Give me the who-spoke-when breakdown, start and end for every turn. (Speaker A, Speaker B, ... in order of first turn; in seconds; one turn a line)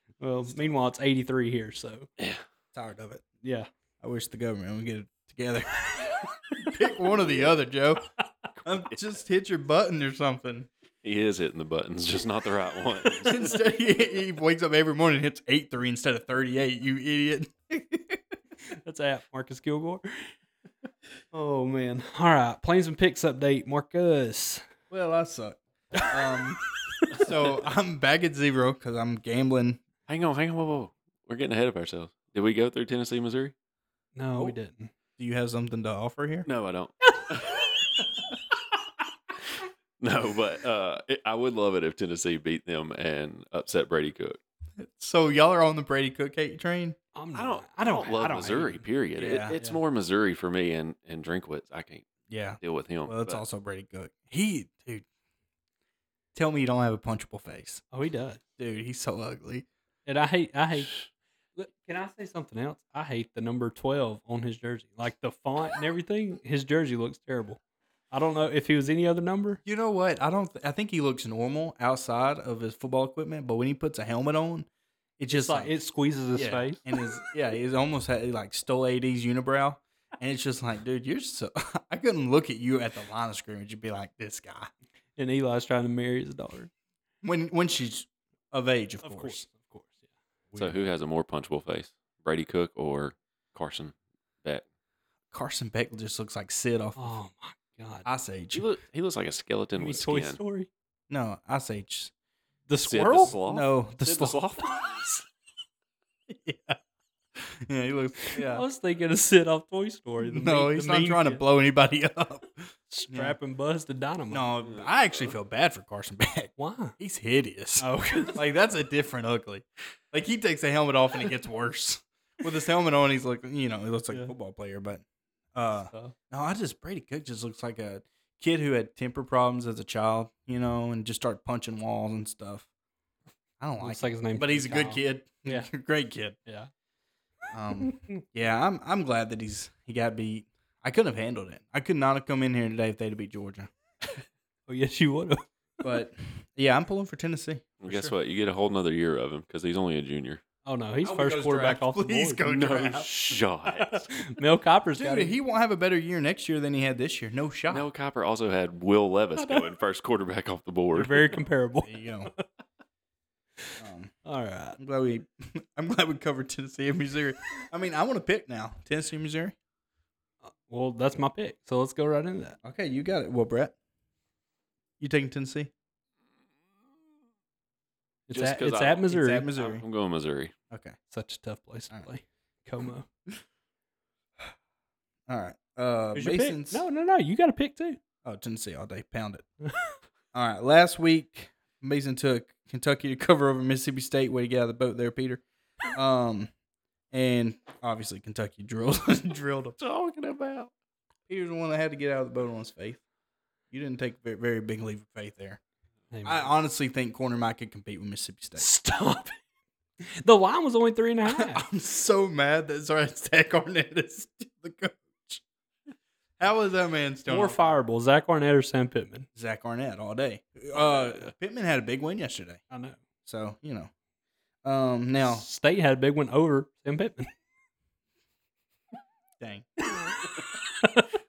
Speaker A: 0.2-2.1
Speaker B: 2.7-3.2
Speaker A: 3.4-3.7
Speaker B: 4.0-8.1
Speaker C: 8.6-8.9
Speaker B: 8.6-10.7
Speaker C: 11.0-13.4
Speaker B: 13.2-18.2
Speaker A: 18.7-20.3
Speaker A: 21.3-24.6
Speaker B: 24.9-29.8
Speaker A: 26.9-27.3
Speaker C: 30.1-33.5
Speaker A: 34.1-34.9
Speaker B: 35.2-36.5
Speaker C: 36.5-37.7
Speaker C: 40.0-44.4
Speaker B: 44.8-47.0
Speaker A: 47.1-48.8
Speaker C: 47.3-52.0
Speaker B: 49.1-49.5
Speaker B: 52.3-55.0
Speaker C: 52.6-53.4
Speaker B: 56.3-57.8
Speaker A: 57.9-58.4
Speaker B: 58.6-59.6
Speaker A: 60.0-60.9
Speaker A: 61.5-67.6
Speaker A: 68.1-69.6
Speaker B: 69.6-74.7
Speaker B: 75.2-75.7
Speaker A: 75.3-76.8
Speaker B: 76.3-84.7
Speaker A: 85.2-86.7
Speaker B: 87.2-89.4
Speaker A: 89.0-90.0
Speaker B: 90.5-90.8
Speaker C: 90.5-94.6
Speaker B: 95.3-97.1
Speaker A: 97.0-98.0
Speaker B: 98.0-98.6
Speaker C: 98.5-100.4
Speaker A: 99.7-100.7
Speaker B: 101.1-102.1
Speaker A: 102.7-103.3
Speaker C: 102.8-105.2
Speaker B: 103.2-104.4
Speaker B: 106.3-106.8
Speaker B: 107.3-108.6
Speaker A: 108.2-111.4
Speaker B: 110.2-113.4
Speaker A: 112.9-114.5
Speaker B: 114.3-125.0
Speaker A: 116.6-117.0
Speaker A: 117.8-118.4
Speaker B: 125.5-132.7
Speaker A: 125.9-126.1
Speaker B: 133.6-136.4
Speaker A: 133.8-135.7
Speaker B: 137.5-143.7
Speaker A: 144.7-145.4
Speaker B: 145.8-148.1
Speaker C: 147.8-150.4
Speaker A: 150.6-152.4
Speaker B: 151.0-153.1
Speaker C: 152.4-154.1
Speaker A: 153.7-155.3
Speaker B: 155.0-157.9
Speaker C: 157.7-161.4
Speaker A: 159.4-159.6
Speaker A: 160.9-162.4
Speaker B: 161.8-162.3
Speaker B: 163.8-164.1
Speaker A: 164.2-164.8
Speaker B: 164.8-169.6
Speaker A: 170.5-172.6
Speaker B: 172.6-173.7
Speaker B: 175.0-175.7
Speaker A: 178.3-179.5
Speaker C: 178.3-180.5
Speaker B: 179.1-179.8
Speaker B: 180.7-180.9
Speaker A: 181.1-183.1
Speaker B: 185.3-186.8
Speaker A: 186.1-188.0
Speaker B: 188.2-189.4
Speaker A: 189.6-189.9
Speaker B: 190.3-196.5
Speaker B: 197.1-199.8
Speaker C: 199.8-200.7
Speaker B: 201.3-203.0
Speaker B: 203.7-205.6
Speaker A: 206.1-206.5
Speaker B: 206.2-208.7
Speaker A: 208.6-209.3
Speaker A: 210.2-211.6
Speaker B: 211.3-215.4
Speaker B: 216.4-217.7
Speaker A: 217.3-219.3
Speaker B: 219.3-222.6
Speaker A: 222.7-223.0
Speaker B: 223.2-223.9
Speaker B: 224.6-225.4
Speaker A: 225.2-227.3
Speaker B: 229.4-229.7
Speaker A: 229.9-231.1